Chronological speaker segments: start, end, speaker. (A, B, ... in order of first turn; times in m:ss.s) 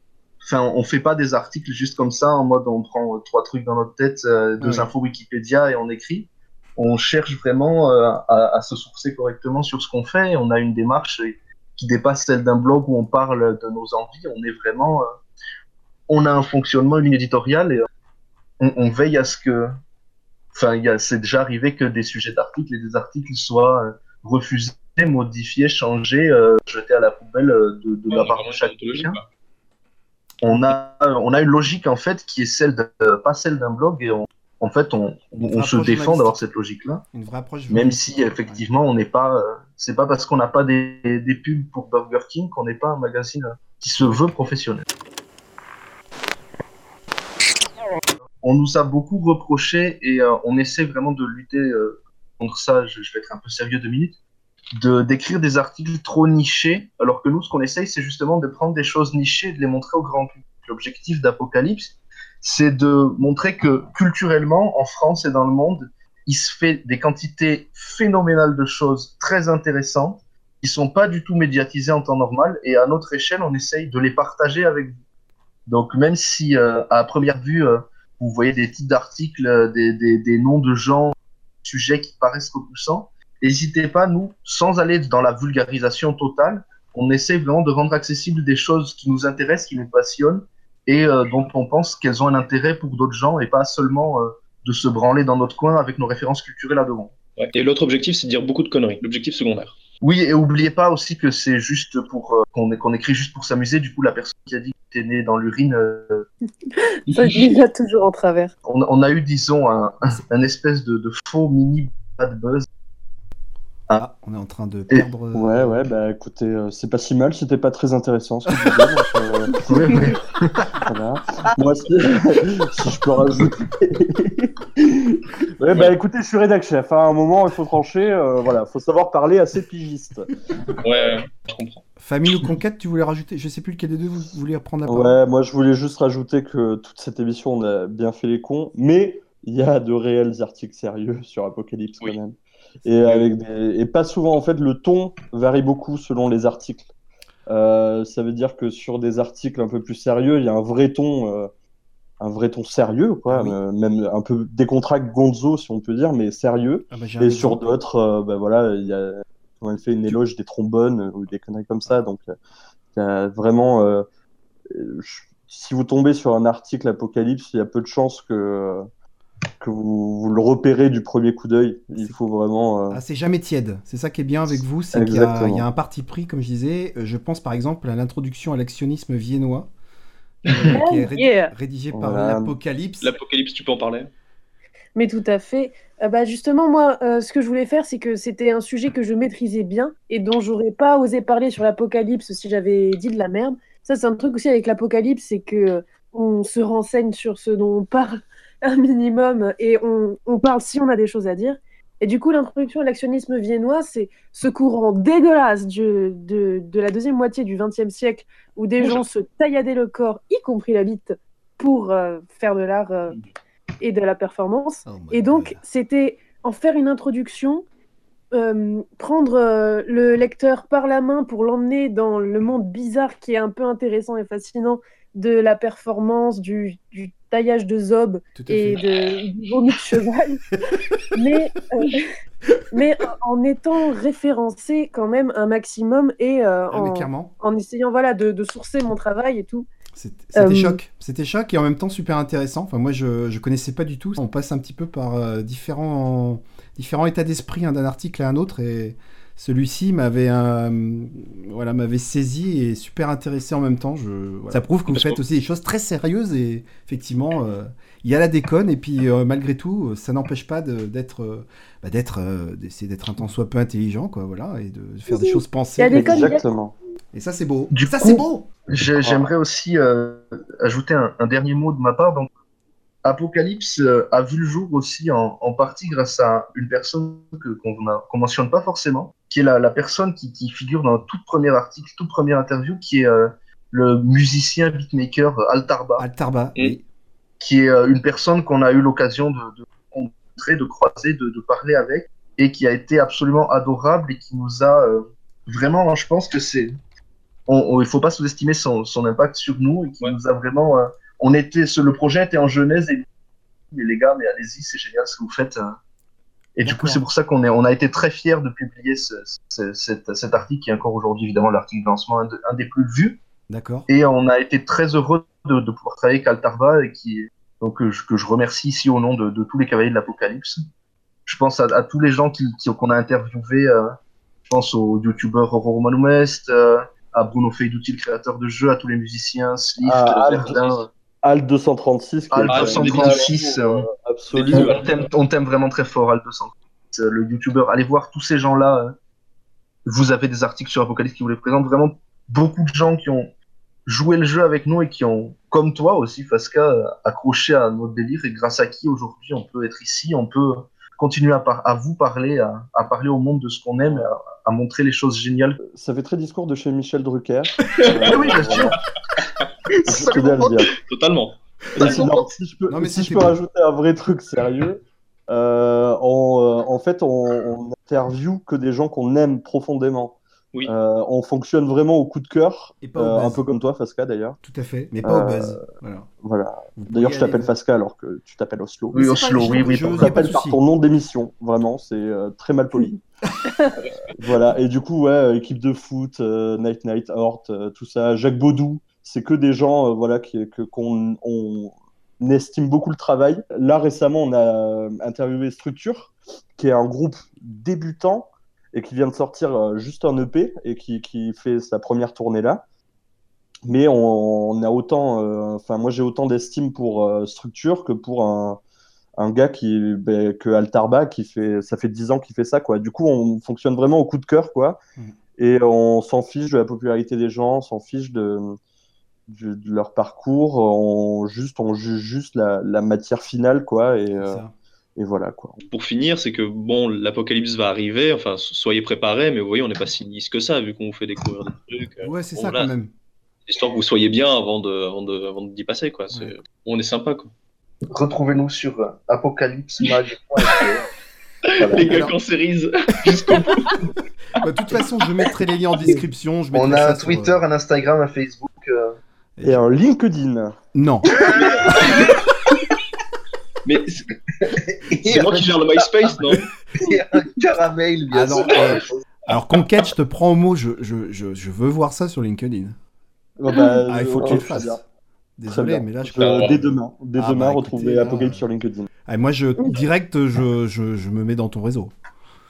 0:00.4-0:15.2 A
0:04.6-0:04.9 B
0:16.1-0:17.9 A
0:18.6-0:19.7 A
0:20.5-0:29.2 A
0:28.1-0:29.2 C
0:30.4-0:37.0 A
0:35.4-0:36.4 B
0:37.1-0:38.6 B
0:37.7-0:44.8 A
0:48.4-0:54.2 A
0:54.8-1:15.0 A
1:15.7-1:37.1 A
1:37.4-1:39.8 C
1:40.0-1:46.3 A
1:46.8-1:48.5 D
1:48.6-1:52.7 A
1:54.0-1:55.8 B
1:55.3-2:00.0 E
1:59.7-2:00.8 A
2:00.8-2:10.3 E
2:10.8-2:11.8 C
2:12.0-2:15.2 B
2:14.8-2:26.9 E
2:27.5-2:31.5 E
2:32.2-2:42.4 E
2:33.3-2:33.6 B
2:36.9-2:37.7 B
2:42.9-2:44.1 E
2:44.7-2:48.9 E
2:49.6-2:53.0 E
2:52.9-2:59.7 B
2:54.9-2:55.7 E
3:00.5-3:03.1 B
3:00.7-3:01.5 D
3:01.9-3:02.5 E
3:03.0-3:04.1 C
3:05.0-3:33.2 D
3:33.8-3:37.6 D
3:34.8-3:35.6 B
3:38.3-3:50.4 D
3:48.4-3:48.8 B
3:51.1-3:52.1 D
3:52.7-3:59.7 D
3:56.7-3:57.3 B
4:00.0-4:26.4 B
4:00.4-4:00.8 D
4:14.9-4:15.2 C
4:25.1-4:26.5 D
4:25.9-4:26.7 E
4:27.1-4:28.5 B
4:27.7-4:32.3 A
4:33.0-4:46.0 A
4:46.0-4:46.8 B
4:47.4-4:56.8 A
4:57.5-5:03.1 A
5:03.7-5:05.8 A
5:06.6-5:13.2 A
5:06.6-5:07.0 B
5:13.5-5:13.9 B
5:13.9-5:20.6 A
5:21.3-5:30.9 A
5:29.8-5:30.6 E
5:31.2-5:34.8 E
5:32.3-5:33.9 A
5:32.5-5:33.3 C
5:34.3-5:35.1 C
5:34.5-5:38.9 A
5:39.9-5:43.3 A
5:43.9-5:55.6 A
5:53.8-5:54.1 E
5:55.6-5:58.8 E
5:57.8-5:58.1 C
5:57.8-5:58.8 A
5:59.2-5:59.5 C
5:59.9-6:00.7 E
5:59.9-6:00.7 A
6:00.7-6:02.0 C
6:01.8-6:14.4 E
6:01.8-6:02.3 A
6:02.7-6:03.4 B
6:12.8-6:13.4 B
6:14.4-6:16.1 B
6:15.0-6:15.7 E
6:16.2-6:19.0 E
6:16.8-6:17.5 B
6:18.9-6:20.3 A
6:18.9-6:19.6 D
6:19.2-6:20.6 B
6:19.5-6:23.0 E
6:24.1-6:42.6 E
6:43.7-6:48.6 E
6:49.2-6:54.8 E
6:55.4-6:58.6 E
6:59.3-7:04.4 E
7:04.1-7:04.5 B
7:05.0-7:05.6 E
7:05.7-7:12.7 C
7:12.0-7:12.9 B
7:13.5-7:17.3 C
7:17.9-7:20.9 A
7:21.4-7:23.8 C
7:21.6-7:21.9 A
7:21.8-7:22.2 B
7:23.5-7:23.8 B
7:24.3-7:27.4 B
7:26.5-7:29.0 A
7:29.4-7:29.6 B
7:29.4-7:30.6 E
7:30.7-7:32.1 B
7:31.1-7:32.2 A
7:31.4-7:32.1 C
7:33.6-7:34.1 C
7:34.3-7:39.0 A
7:35.0-7:36.5 C
7:38.1-7:42.8 B
7:43.4-7:44.8 E
7:43.9-7:44.8 B
7:45.4-7:46.6 B
7:45.5-7:48.9 E
7:46.0-7:46.6 C
7:47.2-7:48.4 B
7:49.1-7:51.9 B